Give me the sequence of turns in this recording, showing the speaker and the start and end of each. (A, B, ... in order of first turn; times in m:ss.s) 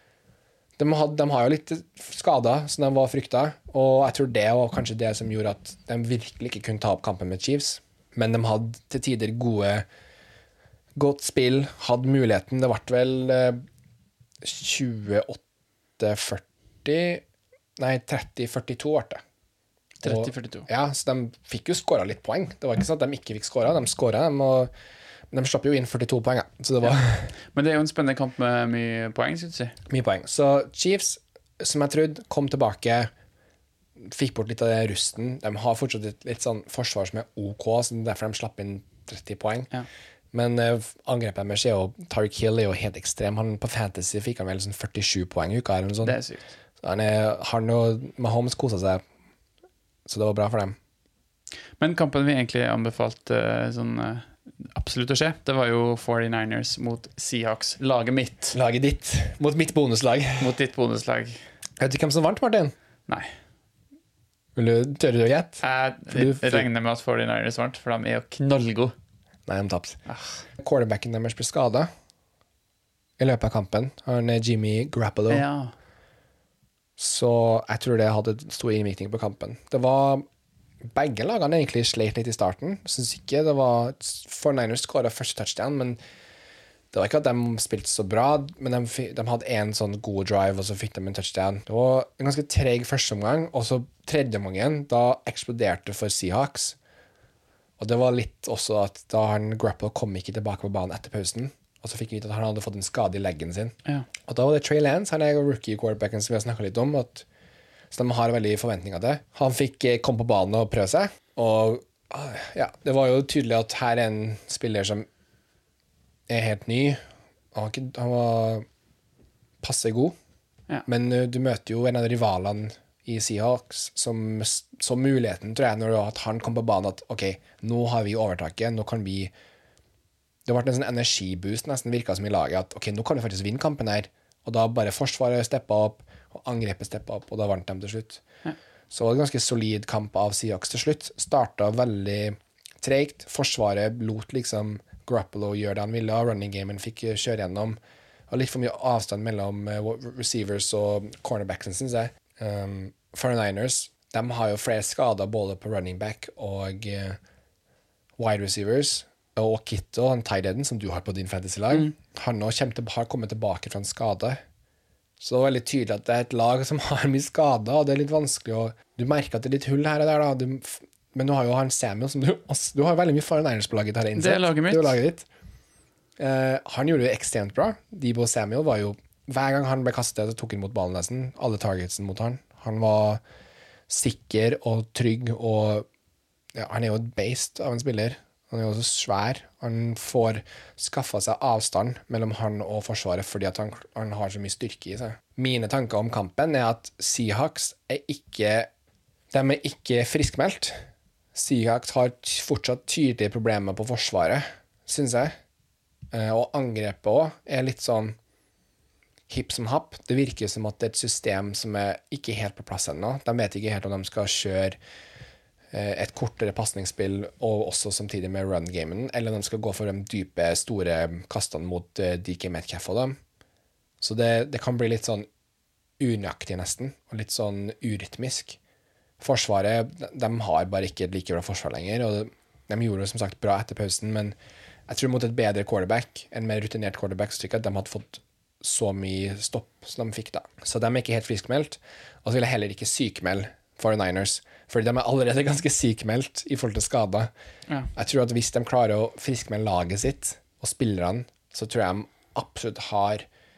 0:00.8-0:09.8 A
0:11.0-0:13.6 A
0:14.4-0:15.4 A
0:16.0-0:17.2 A
0:17.8-0:19.2 A
0:20.0-0:20.7 B
0:20.0-0:24.7 A
0:25.3-0:27.3 A
0:27.5-0:29.8 B
0:29.9-0:33.1 A
0:34.0-0:39.7 A
0:40.3-0:46.2 A
0:46.0-0:46.5 B
0:46.8-0:49.0 A
0:50.0-0:50.8 A
0:51.8-0:58.6 B
0:58.5-1:00.5 A
1:00.4-1:01.4 B
1:01.8-1:02.7 A
1:04.6-1:06.6 A
1:05.6-1:08.9 B
1:09.5-1:10.0 A
1:10.1-1:10.4 B
1:10.6-1:11.9 A
1:13.2-1:15.4 A
1:15.3-1:15.7 B
1:17.0-1:20.2 A
1:20.9-1:26.0 A
1:26.9-1:36.8 A
1:37.8-1:47.2 A
1:47.9-1:55.1 A
1:56.3-1:57.0 A
1:57.5-1:58.6 A
1:59.6-2:00.2 A
2:00.8-2:09.3 A
2:10.4-2:18.2 A
2:18.9-2:37.2 A
2:38.2-2:44.4 A
2:45.2-2:55.2 A
2:54.2-2:55.0 B
2:56.2-3:03.2 A
3:03.9-3:05.9 A
3:06.5-3:18.7 A
3:19.3-3:20.8 A
3:21.3-3:25.3 A
3:26.1-3:28.2 A
3:29.3-3:34.8 A
3:35.7-3:43.2 A
3:44.0-3:45.3 A
3:46.0-3:48.6 A
3:49.2-3:54.4 A
3:54.9-4:07.3 A
4:07.9-4:13.2 A